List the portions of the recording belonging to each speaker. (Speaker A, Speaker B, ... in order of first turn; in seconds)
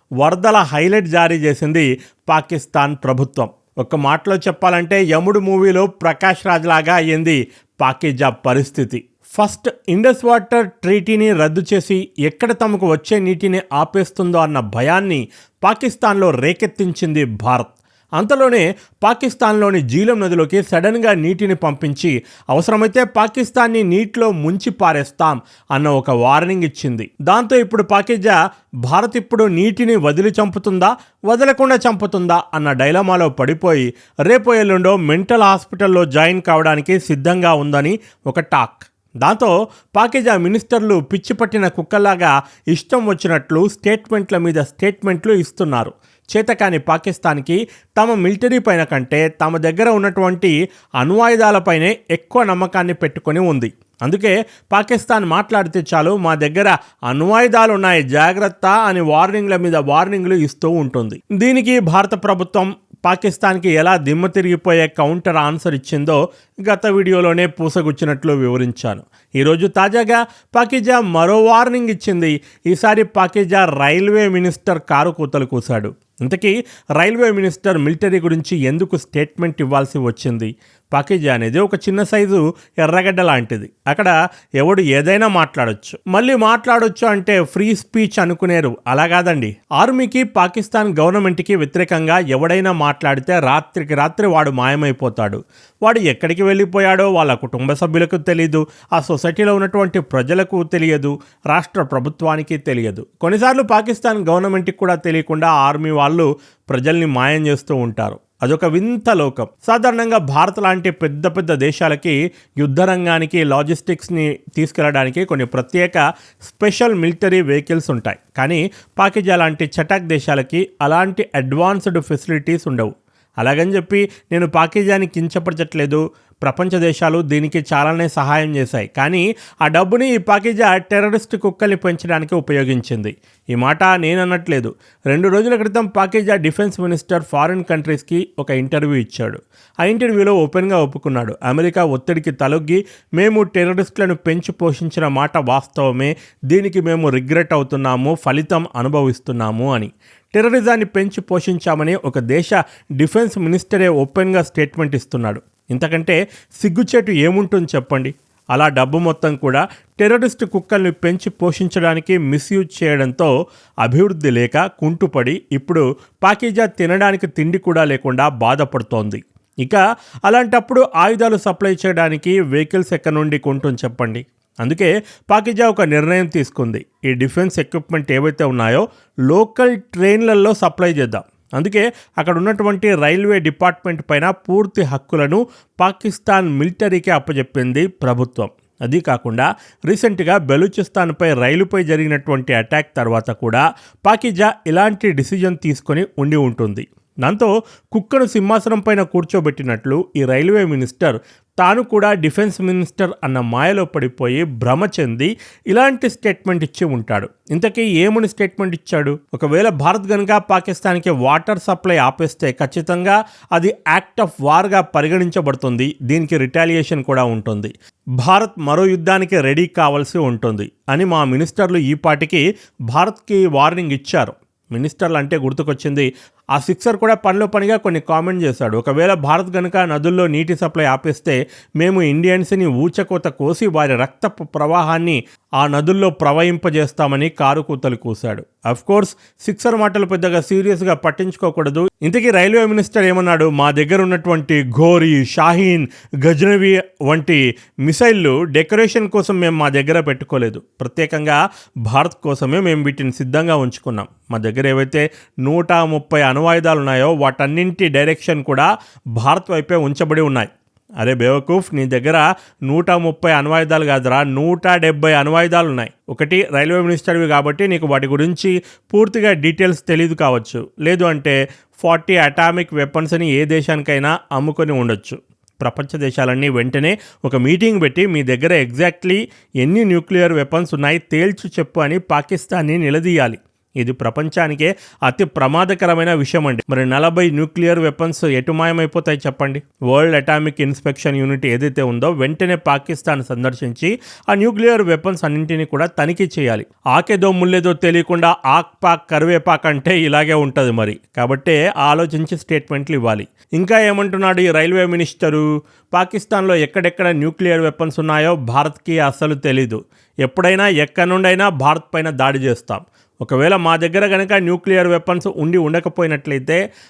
Speaker A: 0.2-163.3, 163.8-260.5, 261.0-316.6